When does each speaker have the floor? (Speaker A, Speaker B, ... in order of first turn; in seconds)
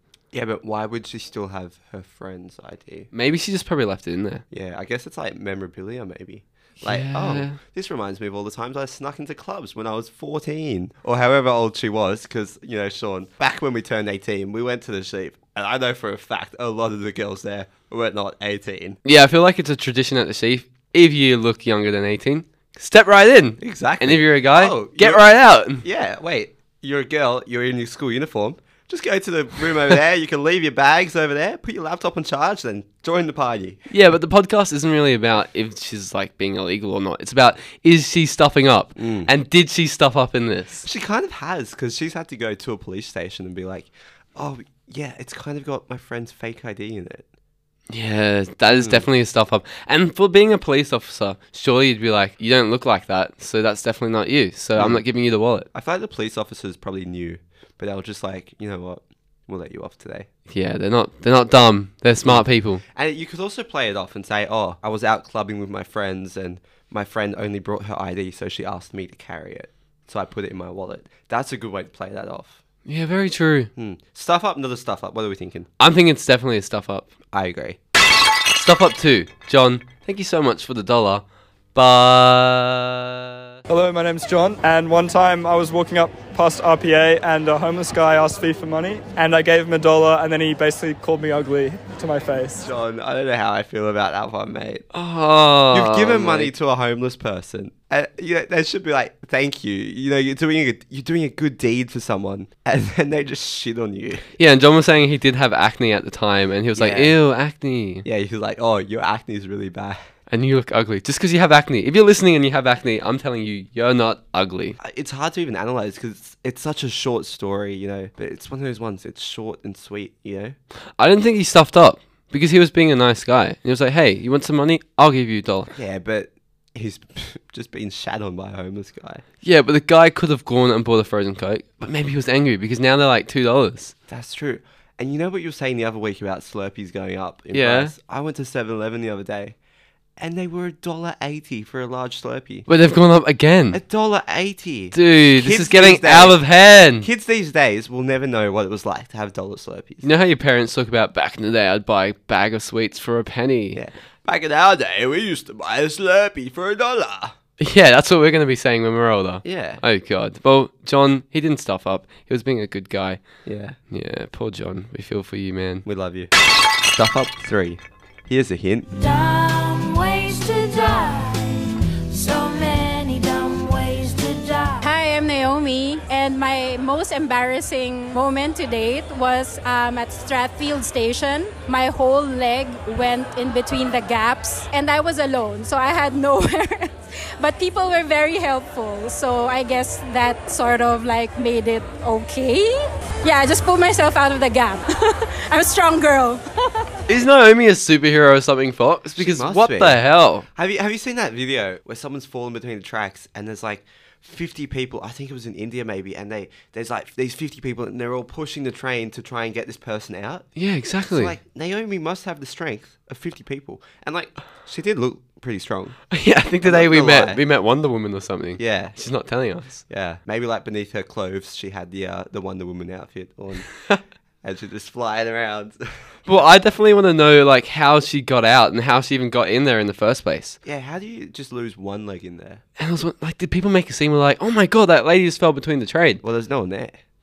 Speaker A: 0.3-3.1, 4.5-19.0, 23.6-25.2, 25.8-33.8, 39.0-39.3, 40.8-47.2, 48.7-49.0, 54.8-55.0, 55.7-60.3, 62.2-72.6, 73.8-75.7, 77.3-77.8, 92.6-94.8, 95.7-104.2, 106.8-107.2, 108.0-110.0, 114.8-120.5, 125.7-129.2, 134.1-139.6, 140.2-142.7, 143.7-146.4, 147.0-150.1, 153.7-157.3, 159.4-159.8, 163.4-163.8, 165.8-166.3, 166.8-168.9, 199.2-200.0, 200.5-210.5, 211.1-216.0, 216.6-217.4, 218.6-219.0, 219.9-223.7, 224.4-225.9, 230.6-232.6, 236.2-237.0
Speaker B: 3.1-4.4, 6.8-7.6, 19.0-25.8, 33.9-40.9, 47.9-55.7, 60.5-62.8, 72.8-73.7, 75.8-77.1, 78.5-81.2, 81.7-83.6, 94.9-96.5, 104.4-108.0, 110.3-114.8, 121.0-125.7, 129.4-133.9, 137.5-137.9, 142.7-143.8, 144.9-147.1, 150.0-153.8, 157.6-163.2, 163.9-165.8, 197.1-200.4, 210.5-211.3, 216.1-219.8, 226.3-230.6, 232.8-236.2
Speaker C: 83.7-92.7
Speaker D: 168.9-174.8
Speaker E: 174.8-192.7, 193.2-194.8, 195.5-196.4